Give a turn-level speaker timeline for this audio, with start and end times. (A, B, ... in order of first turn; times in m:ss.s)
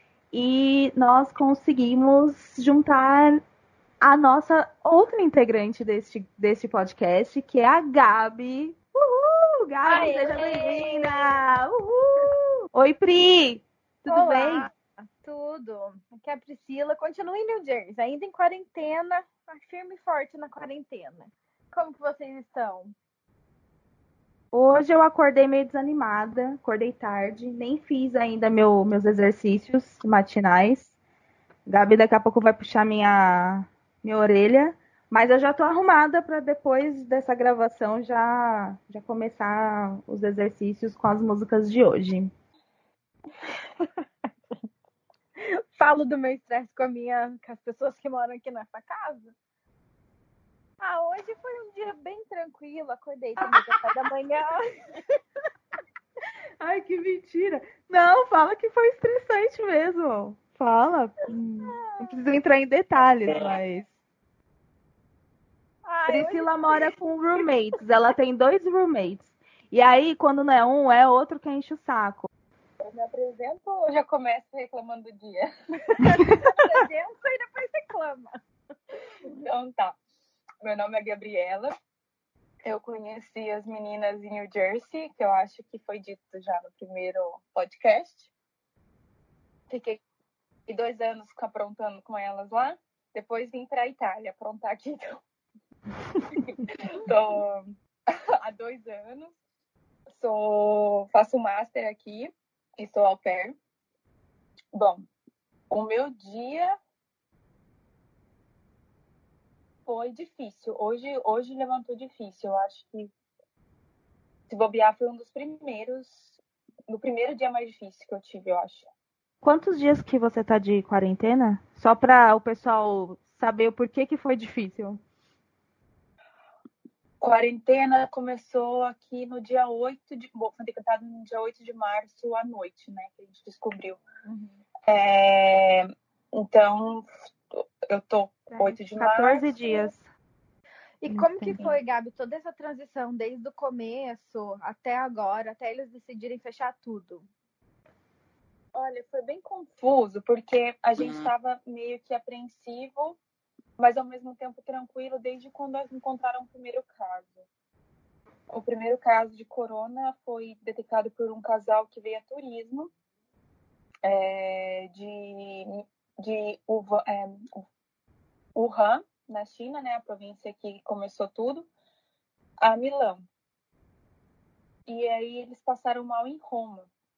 0:00.3-0:03.4 A
0:04.0-0:14.7 A
0:09.8-0:11.3 B
0:14.1-0:22.9 B
0:24.5-0:30.9 A
0:31.7-0:42.3 A
0:45.4-0:49.3 B
0:50.8-0:55.0 B
0:53.4-0:53.8 A
0:56.6-1:03.9 A
1:01.6-1:02.2 B
1:05.8-1:06.9 B
1:06.1-1:12.3 A
1:12.8-1:16.0 C
1:16.0-1:18.4 B
1:19.2-1:20.0 C
1:20.6-1:21.7 C
1:22.6-1:28.3 C
1:29.7-1:30.0 C
1:30.7-1:35.2 C
1:36.4-1:37.7 C
1:38.4-1:39.4 C
1:40.1-1:43.5 C
1:44.7-1:45.1 C
1:45.7-1:46.8 C
1:49.8-1:53.1 C
1:54.5-1:58.9 C
1:59.4-2:05.0 A
2:07.2-2:14.0 C
2:14.9-2:19.9 C
2:18.5-2:20.0 A
2:21.0-2:27.3 B
2:21.1-2:21.6 A
2:28.7-2:33.2 C
2:33.8-2:37.5 C
2:38.5-2:42.9 C
2:44.0-2:47.5 C
2:48.5-2:51.7 C
2:52.6-2:53.2 C
2:54.9-2:56.9 C